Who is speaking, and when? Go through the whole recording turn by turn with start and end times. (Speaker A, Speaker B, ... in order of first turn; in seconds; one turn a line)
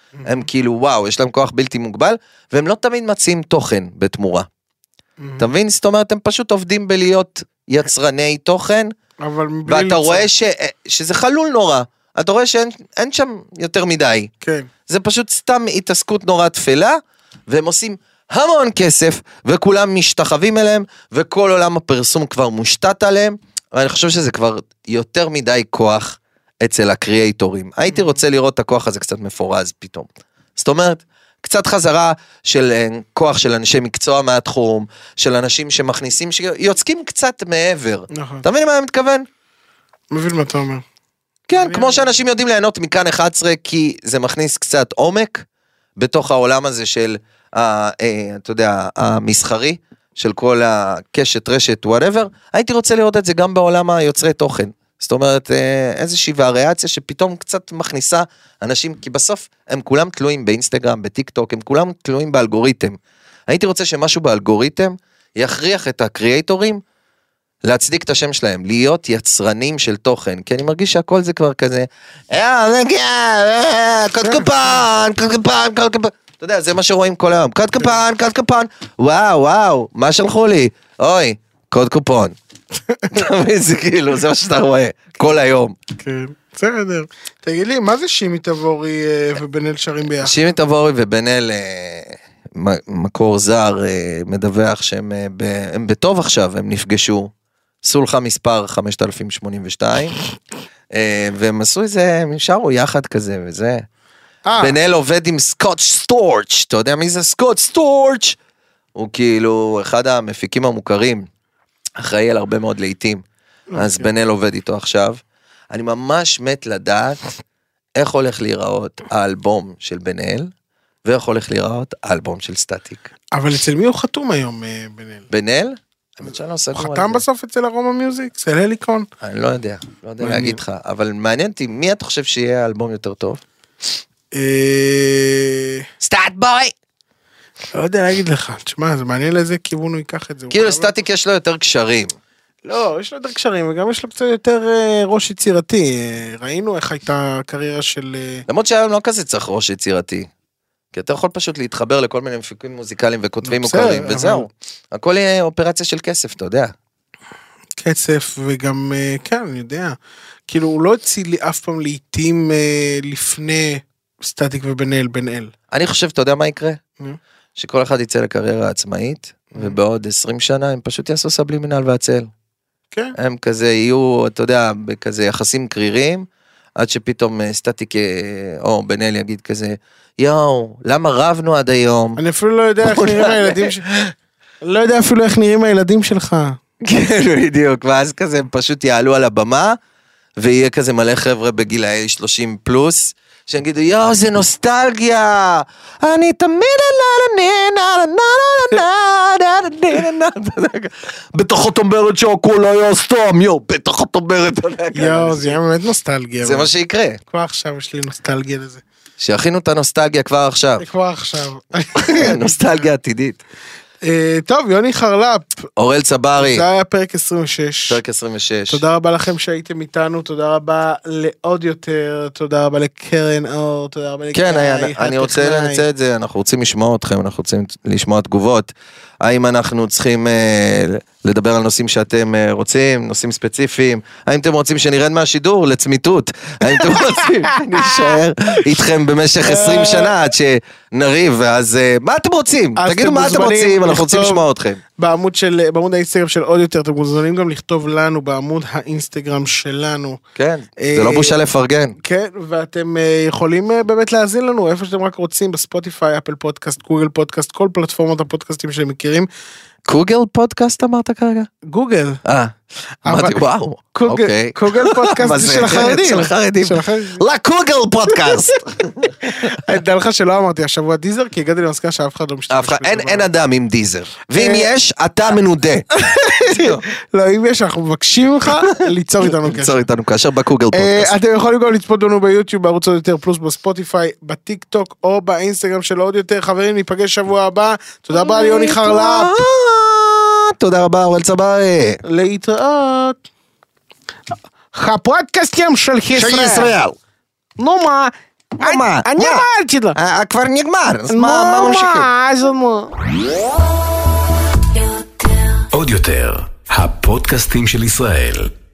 Speaker A: 0.2-4.5
Speaker B: 5.2-5.5
Speaker A: 5.4-8.9
Speaker B: 9.2-10.3
Speaker A: 9.7-14.3
Speaker B: 14.4-14.7
Speaker A: 14.9-39.3
Speaker B: 38.1-38.4
Speaker B: 40.1-40.8
Speaker A: 41.5-45.5
Speaker B: 41.5-42.0
Speaker A: 46.0-66.8
Speaker A: 67.6-82.3
Speaker B: 74.2-74.5
Speaker A: 83.1-85.8
Speaker B: 86.0-90.4
Speaker A: 90.2-97.3
Speaker A: 97.8-100.2
Speaker A: 100.9-103.8
Speaker B: 104.5-104.8
Speaker A: 104.6-108.4
Speaker A: 108.9-111.3
Speaker A: 112.0-113.2
Speaker B: 113.7-114.1
Speaker A: 113.8-117.2
Speaker A: 118.0-120.5
Speaker A: 121.0-123.0
Speaker B: 123.3-125.3
Speaker A: 125.3-127.2
Speaker B: 126.7-129.1
Speaker A: 129.2-133.4
Speaker B: 130.2-130.6
Speaker B: 134.3-135.8
Speaker A: 136.0-136.7
Speaker B: 137.7-140.9
Speaker A: 140.5-142.2
Speaker B: 142.6-148.4
Speaker A: 148.5-150.3
Speaker A: 150.9-156.7
Speaker B: 153.4-154.5
Speaker B: 157.8-159.9
Speaker B: 160.5-165.5
Speaker A: 165.7-166.8
Speaker A: 167.6-172.3
Speaker A: 173.2-182.2
Speaker B: 182.2-183.8
Speaker A: 182.8-184.1
Speaker B: 184.6-186.6
Speaker A: 186.8-189.8
Speaker A: 190.4-205.6
Speaker B: 204.9-206.7
Speaker A: 206.4-207.2
Speaker B: 207.3-208.8
Speaker A: 209.2-210.8
Speaker B: 210.8-212.8
Speaker A: 212.1-213.4
Speaker B: 214.0-215.7
Speaker A: 215.8-216.6
Speaker B: 216.4-218.0
Speaker A: 217.9-218.8
Speaker B: 218.7-225.8
Speaker A: 224.3-244.8
Speaker B: 239.4-240.1
Speaker B: 242.8-244.4
Speaker B: 245.0-250.2
Speaker A: 250.3-251.9
Speaker B: 250.8-251.3
Speaker B: 252.0-259.3
Speaker A: 259.9-261.5
Speaker B: 261.6-262.2
Speaker A: 262.2-262.5
Speaker B: 263.0-267.2
Speaker A: 263.1-269.5
Speaker B: 269.2-273.3
Speaker A: 272.5-276.8
Speaker B: 274.3-274.7
Speaker B: 275.9-279.8
Speaker A: 278.6-281.1
Speaker B: 280.7-289.4
Speaker A: 288.1-292.0
Speaker B: 292.0-293.2
Speaker B: 294.7-296.7
Speaker A: 296.1-296.9
Speaker B: 297.6-300.0
Speaker A: 298.6-302.1
Speaker B: 301.1-302.9
Speaker C: 305.7-308.5